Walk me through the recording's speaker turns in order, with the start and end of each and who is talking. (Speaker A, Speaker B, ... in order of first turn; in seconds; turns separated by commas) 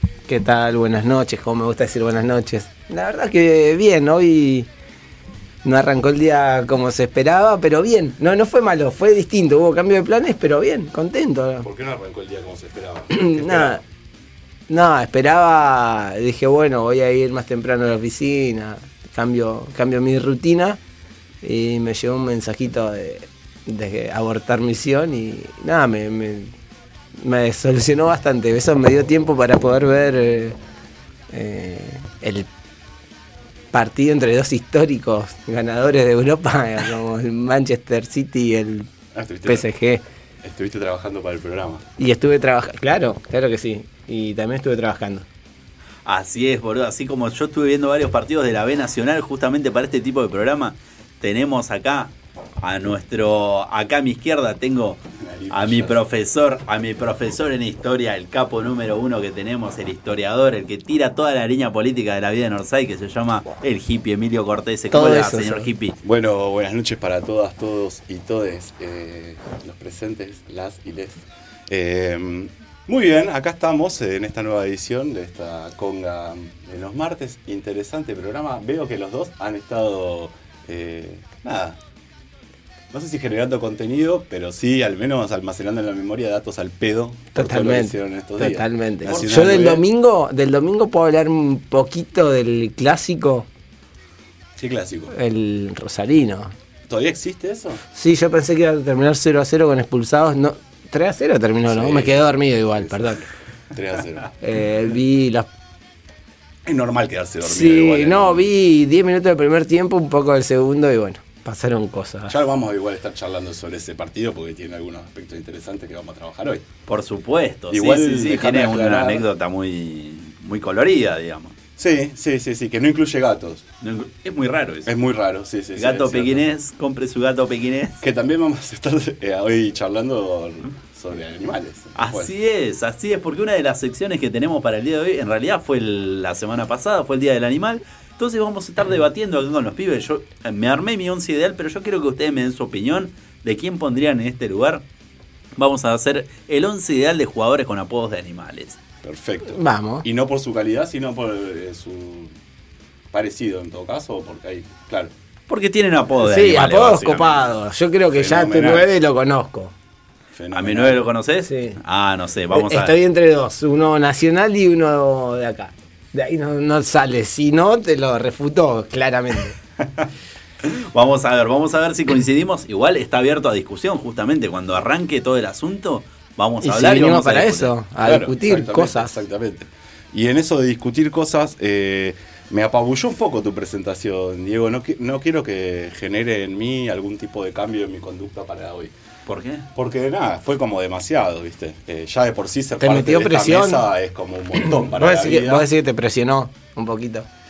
Speaker A: 0.3-4.7, Speaker A: 5.6-11.7, Speaker B: 11.6-13.8, Speaker A: 13.1-13.8, Speaker A: 14.7-20.8, Speaker A: 21.4-26.5, Speaker A: 27.2-30.6, Speaker A: 31.3-32.5, Speaker A: 33.7-38.9, Speaker B: 39.1-39.7, Speaker A: 39.5-40.0, Speaker B: 40.4-41.8, Speaker A: 42.0-45.2, Speaker C: 46.1-66.0, Speaker B: 55.2-56.1, Speaker A: 64.9-65.7, Speaker B: 66.0-81.8, Speaker B: 82.9-89.8, Speaker A: 87.3-93.5, Speaker C: 89.0-89.6, Speaker B: 94.6-95.2, Speaker A: 95.1-96.5, Speaker B: 96.9-97.8, Speaker A: 97.9-103.3, Speaker B: 101.7-103.2, Speaker B: 103.7-104.3, Speaker A: 104.4-105.5, Speaker B: 106.7-108.5, Speaker A: 107.4-112.3, Speaker B: 112.3-116.6, Speaker C: 116.9-121.5, Speaker B: 117.7-119.3, Speaker B: 121.8-123.6, Speaker C: 123.8-124.9, Speaker B: 124.9-126.5, Speaker C: 125.8-128.0, Speaker B: 128.0-132.3, Speaker C: 132.0-144.8, Speaker C: 145.6-148.8, Speaker B: 149.0-152.3, Speaker A: 149.5-150.1, Speaker B: 153.1-155.1, Speaker C: 155.5-157.6, Speaker A: 156.2-159.7, Speaker B: 158.1-158.9, Speaker B: 160.3-161.1, Speaker C: 160.5-162.9, Speaker A: 161.4-161.8, Speaker A: 162.5-169.6, Speaker C: 170.7-177.7, Speaker A: 176.6-179.1, Speaker B: 178.0-188.9, Speaker C: 189.3-189.7, Speaker B: 189.8-195.7, Speaker A: 192.8-193.9, Speaker A: 194.6-197.3